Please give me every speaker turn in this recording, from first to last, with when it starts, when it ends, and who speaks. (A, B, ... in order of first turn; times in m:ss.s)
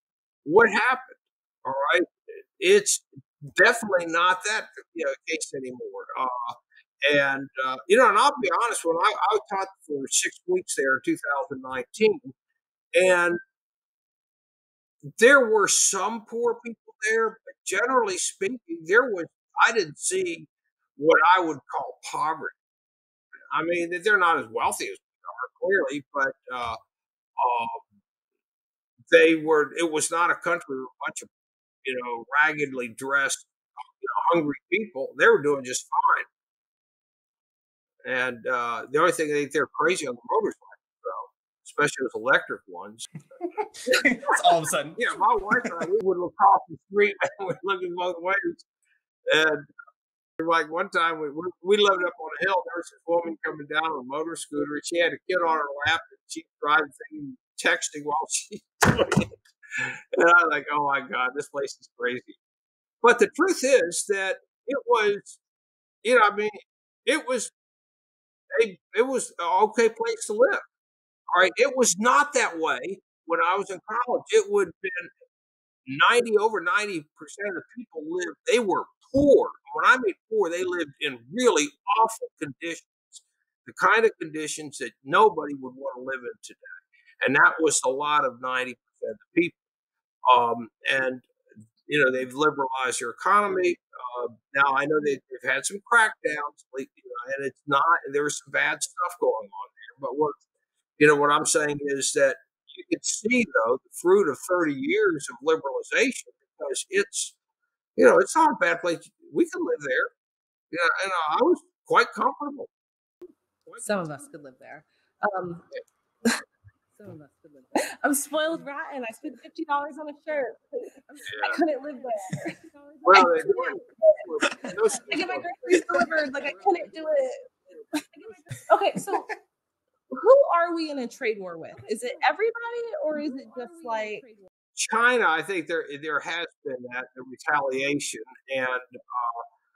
0:00.4-0:12.3 A
0:12.9-0:13.4 A
0:15.2-0:22.5 A
0:23.5-0:26.8 A
0:27.4-0:27.8 A
0:29.1-0:31.3 A
0:31.8-0:33.5 A
0:34.0-0:36.3 A
0:38.0-0:43.0 A
0:43.4-0:45.7 B
0:45.0-0:48.6 A
0:49.3-0:49.7 A
0:50.4-1:02.4 A
1:03.0-1:05.4 A
1:06.0-1:07.5 A
1:08.5-1:10.6 A
1:11.3-1:15.1 A
1:15.9-1:29.6 A
1:30.3-1:31.3 A
1:31.8-1:40.4 A
1:41.0-1:47.3 A
1:48.0-1:50.1 A
1:50.7-1:52.7 A
1:53.8-1:55.6 C
1:57.0-2:04.3 C
2:01.3-2:01.6 A
2:03.0-2:05.8 A
2:05.0-2:09.3 C
2:10.1-2:14.3 C
2:14.8-2:19.4 A